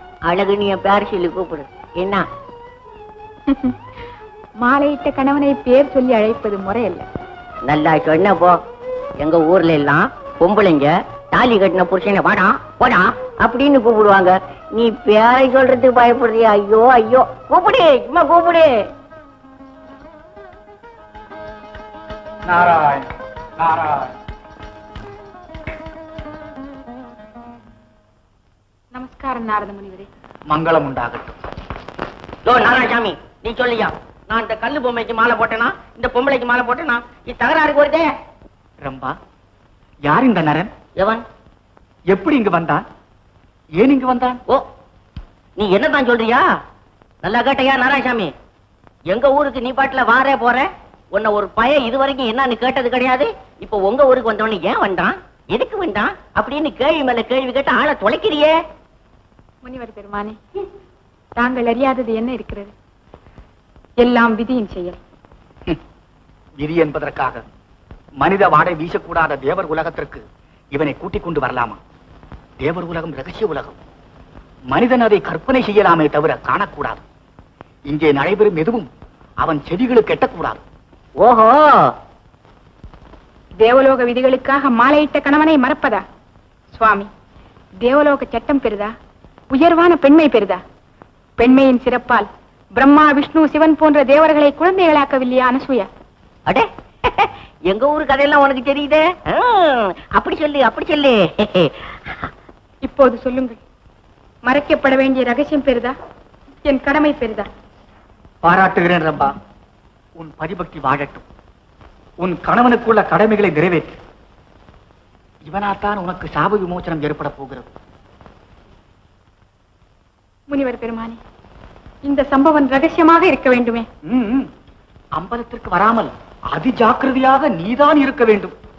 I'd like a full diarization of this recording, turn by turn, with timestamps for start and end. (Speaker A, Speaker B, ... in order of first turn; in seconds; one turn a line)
Speaker A: 0.3-2.2
Speaker B: 3.5-3.7
Speaker B: 4.6-7.0
Speaker A: 7.6-8.6
Speaker A: 9.2-18.7
Speaker C: 22.4-24.1
Speaker B: 28.9-30.1
Speaker C: 30.5-31.3
Speaker A: 32.4-38.1
Speaker C: 38.8-39.1
Speaker C: 40.0-40.7
Speaker A: 41.0-41.2
Speaker C: 42.1-42.8
Speaker C: 43.8-44.4
Speaker A: 45.6-46.4
Speaker A: 47.2-48.3
Speaker A: 49.1-58.5
Speaker B: 59.6-60.4
Speaker B: 61.4-62.7
Speaker B: 64.0-65.0
Speaker C: 66.6-67.4
Speaker C: 68.2-71.8
Speaker C: 72.6-73.8
Speaker C: 74.7-77.0
Speaker C: 77.9-78.9
Speaker C: 79.4-80.6
Speaker A: 81.2-81.9
Speaker B: 83.6-86.0
Speaker B: 86.7-87.1
Speaker B: 87.8-88.9
Speaker B: 89.5-90.6
Speaker B: 91.4-95.9
Speaker A: 96.5-102.3
Speaker B: 102.8-103.6
Speaker B: 104.4-106.0
Speaker B: 106.6-107.5
Speaker C: 108.4-109.3
Speaker C: 110.2-111.2
Speaker C: 112.2-113.9
Speaker C: 115.4-117.7
Speaker B: 120.5-121.2
Speaker B: 122.0-123.9
Speaker C: 124.0-124.5
Speaker C: 125.2-128.5